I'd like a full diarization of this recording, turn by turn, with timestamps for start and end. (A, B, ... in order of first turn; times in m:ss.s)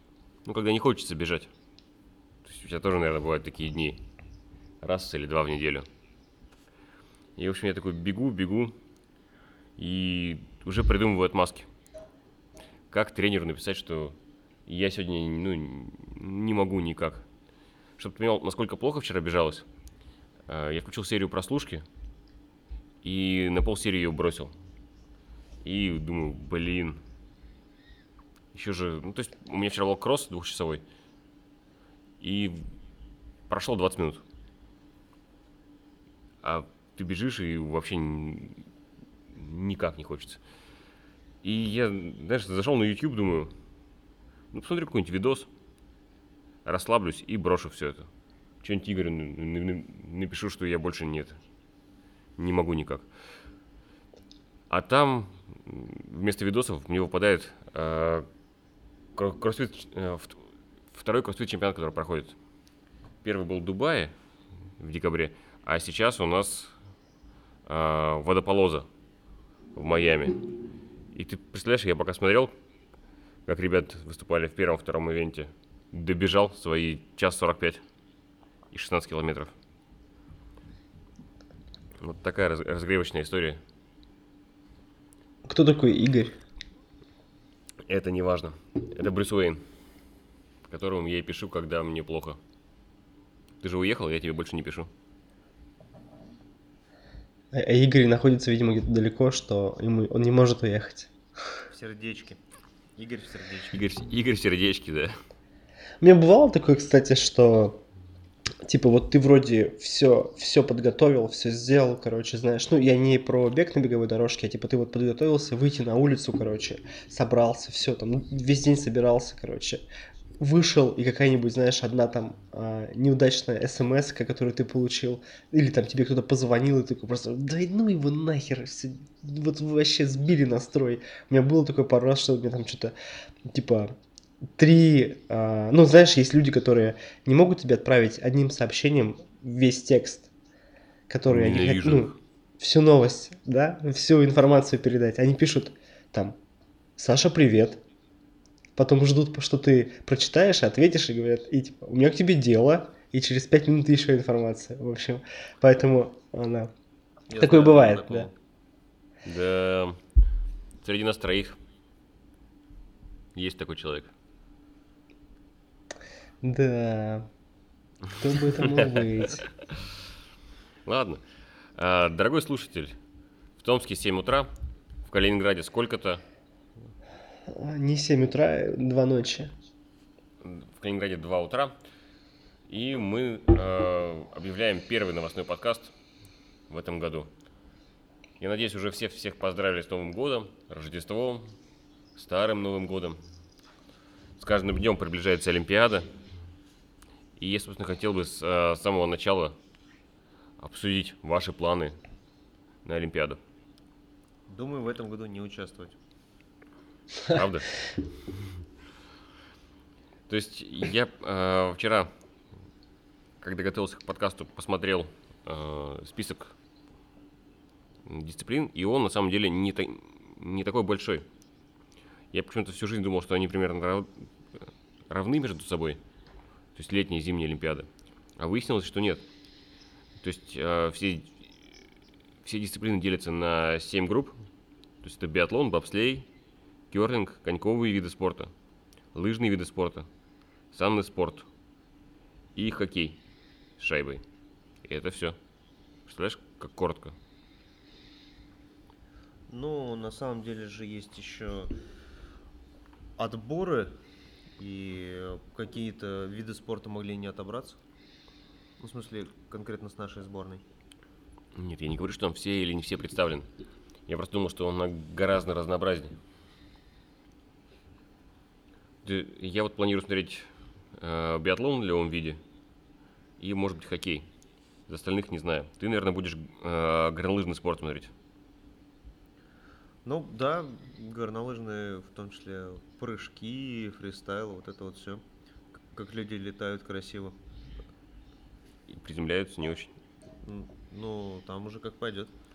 0:00.4-0:01.5 A
0:02.4-0:04.0 A
0:04.8-0:05.8 A
0:07.4-0:08.7 A
0:09.8-0:11.7 A
0:12.9-0:14.2 A
0:14.7-0:17.2 A
0:18.0-0:19.6 A
0:20.5-0:21.8 A
0:23.0-0:24.5 A
0:25.6-0:27.0 A
0:28.5-0:30.8 A
0:32.2-0:32.6 A
0:33.5-0:34.2 A
0:36.4-0:38.6 A
0:39.3-0:40.4 A
0:41.4-0:43.5 A
0:44.5-0:45.5 A
0:46.6-0:48.1 A
0:48.6-0:51.4 A
0:52.4-0:53.1 A
0:54.7-0:58.2 A
0:59.2-1:02.3 A
1:03.2-1:04.1 A
1:04.8-1:06.7 A
1:07.6-1:08.9 A
1:09.7-1:10.5 A
1:11.1-1:12.5 A
1:13.5-1:17.8 A
1:18.7-1:19.5 A
1:22.0-1:23.6 A
1:25.4-1:26.4 B
1:27.9-1:29.6 A
1:30.6-1:32.4 A
1:33.6-1:34.9 A
1:37.5-1:41.1 B
1:41.7-1:42.4 C
1:43.0-1:43.8 C
1:43.7-1:45.1 A
1:46.0-1:47.8 B
1:48.6-1:59.8 B
2:00.4-2:12.9 B
2:13.4-2:14.0 B
2:14.6-2:20.3 B
2:21.1-2:26.4 B
2:21.3-2:22.2 A
2:27.0-2:27.8 B
2:28.8-2:36.7 B
2:37.3-2:38.3 C
2:37.4-2:38.3 B
2:39.2-2:40.0 A
2:40.8-2:41.6 A
2:43.3-2:44.1 A
2:46.4-2:47.3 B
2:48.2-2:49.4 B
2:48.6-2:49.0 A
2:50.8-2:51.2 A
2:51.8-2:53.0 A
2:53.6-2:54.5 A
2:55.0-2:56.2 A
2:57.5-2:59.5 B
3:00.4-3:01.7 A
3:02.7-3:05.9 A
3:06.7-3:07.3 A
3:08.4-3:11.5 A
3:12.2-3:13.2 A
3:14.4-3:16.1 A
3:17.4-3:19.5 A
3:20.6-3:22.0 A
3:22.8-3:23.4 A
3:24.5-3:26.0 C
3:27.3-3:27.8 A
3:30.3-3:32.1 A
3:33.4-3:36.5 A
3:38.0-3:41.2 A
3:42.3-3:46.0 A
3:46.7-3:49.2 A
3:50.2-3:51.4 A
3:52.4-3:54.3 A
3:55.0-3:56.3 A
3:56.9-3:58.5 A
3:59.1-4:00.1 A
4:00.7-4:01.5 A
4:02.5-4:03.2 A
4:03.8-4:04.2 A
4:04.8-4:05.4 A
4:06.1-4:07.2 A
4:09.5-4:11.7 C
4:13.2-4:14.0 C
4:14.6-4:17.8 C
4:18.8-4:20.6 C
4:21.5-4:23.5 A
4:24.1-4:26.2 A
4:29.0-4:32.4 A
4:33.4-4:34.2 A
4:34.9-4:38.1 A
4:40.0-4:45.2 C
4:45.9-4:47.4 C
4:48.9-4:49.9 A
4:50.4-4:52.3 C